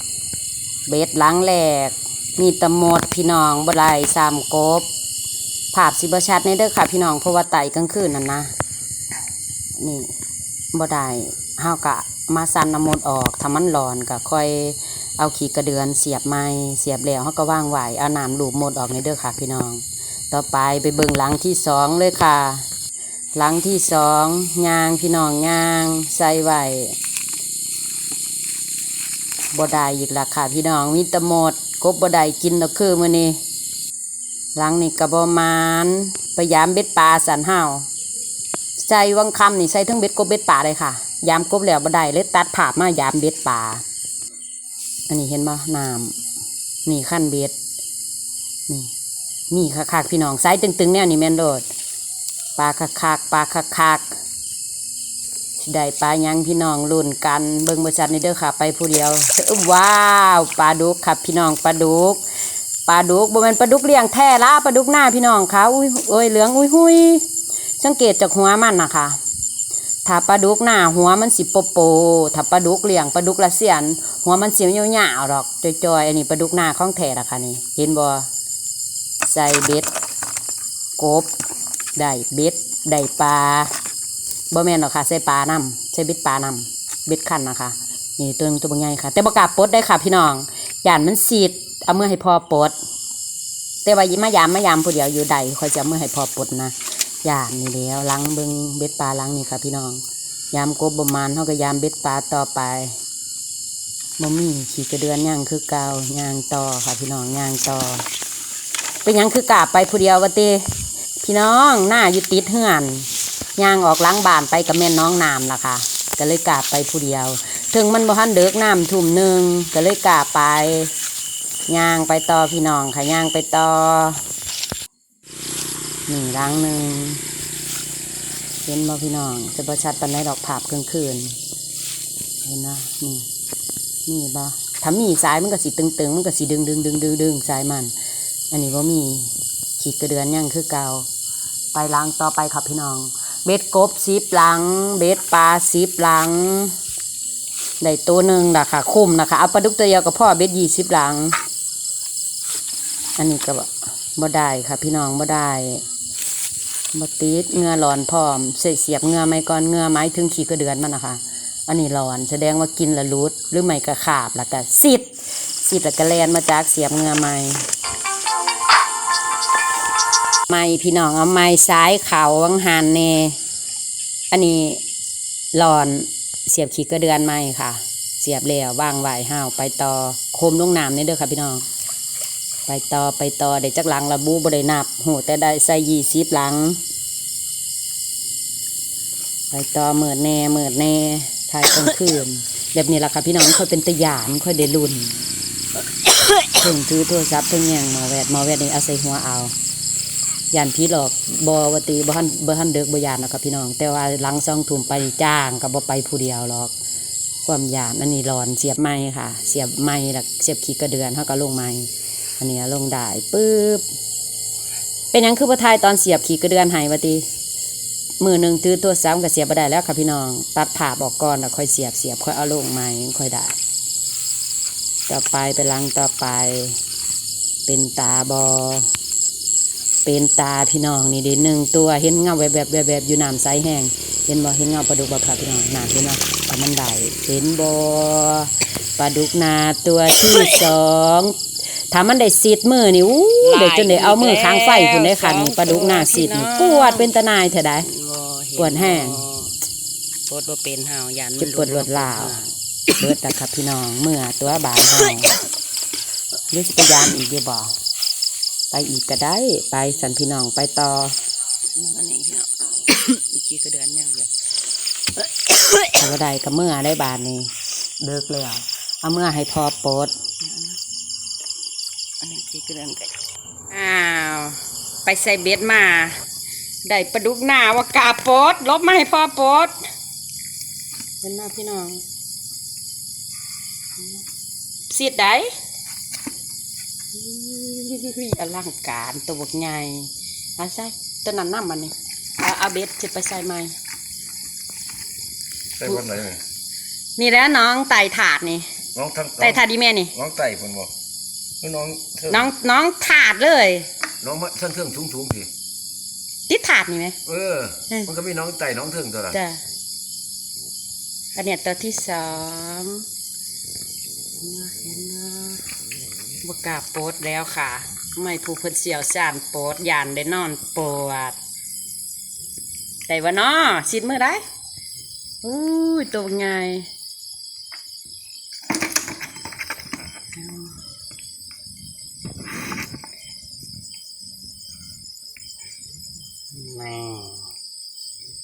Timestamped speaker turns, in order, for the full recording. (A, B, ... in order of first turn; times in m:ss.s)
0:00.9-0:04.8 A
0:05.7-0:08.5 A
0:09.8-0:10.1 A
0:10.7-0:22.6 A
0:23.4-0:27.0 A
0:29.5-0:33.4 A
0:34.6-0:37.9 A
0:38.8-0:43.8 A
0:45.1-0:46.1 A
0:46.8-0:47.5 A
0:49.5-0:51.6 A
0:52.6-0:54.1 A
0:55.6-1:02.2 A
1:02.9-1:07.2 A
1:07.8-1:09.2 A
1:10.0-1:18.3 A
1:19.2-1:19.9 A
1:21.0-1:21.3 A
1:22.0-1:23.7 A
1:24.5-1:32.7 A
1:33.8-1:42.9 A
1:44.2-1:48.0 A
1:49.0-1:50.6 A
1:51.2-2:00.9 A
2:01.7-2:04.2 A
2:06.1-2:07.2 A
2:08.6-2:11.4 A
2:12.4-2:13.2 A
2:14.1-2:17.9 A
2:18.5-2:21.0 A
2:21.7-2:26.7 A
2:27.8-2:31.4 A
2:33.2-2:35.8 A
2:36.9-2:45.1 A
2:45.7-2:47.7 A
2:50.5-2:53.4 A
2:54.3-2:54.8 A
2:55.5-3:01.6 A
3:02.7-3:06.8 A
3:09.5-3:15.2 A
3:16.5-3:19.5 A
3:20.5-3:26.7 A
3:27.4-3:31.9 A
3:32.4-3:33.8 A
3:35.1-3:37.2 A
3:38.2-3:43.5 A
3:45.1-3:46.8 A
3:47.7-3:48.9 A
3:50.0-4:01.3 A
4:01.9-4:07.9 A
4:03.4-4:07.1 B
4:07.8-4:09.5 B
4:08.6-4:09.2 A
4:10.3-4:12.5 B
4:11.4-4:12.4 A
4:12.9-4:15.4 A
4:16.5-4:17.7 A
4:18.7-4:21.1 A
4:21.8-4:24.3 B
4:25.2-4:26.0 B
4:25.9-4:27.5 A
4:28.0-4:30.1 A
4:30.4-4:30.8 B
4:32.2-4:33.1 B
4:33.7-4:36.2 A
4:36.8-4:39.7 A
4:41.2-4:42.0 A
4:44.9-4:45.5 A
4:47.2-4:53.7 A
4:55.8-4:56.4 C
4:57.2-4:58.7 A
4:58.9-5:00.9 C
4:59.4-5:00.1 A
5:01.6-5:02.5 C
5:02.3-5:03.9 A
5:04.2-5:05.5 C
5:06.5-5:07.2 A
5:07.2-5:09.4 C
5:09.3-5:09.6 A
5:11.3-5:13.0 A
5:14.4-5:15.6 A
5:16.4-5:21.4 A
5:23.1-5:24.4 A
5:25.4-5:26.9 A
5:30.4-5:30.7 A
5:36.5-5:37.4 A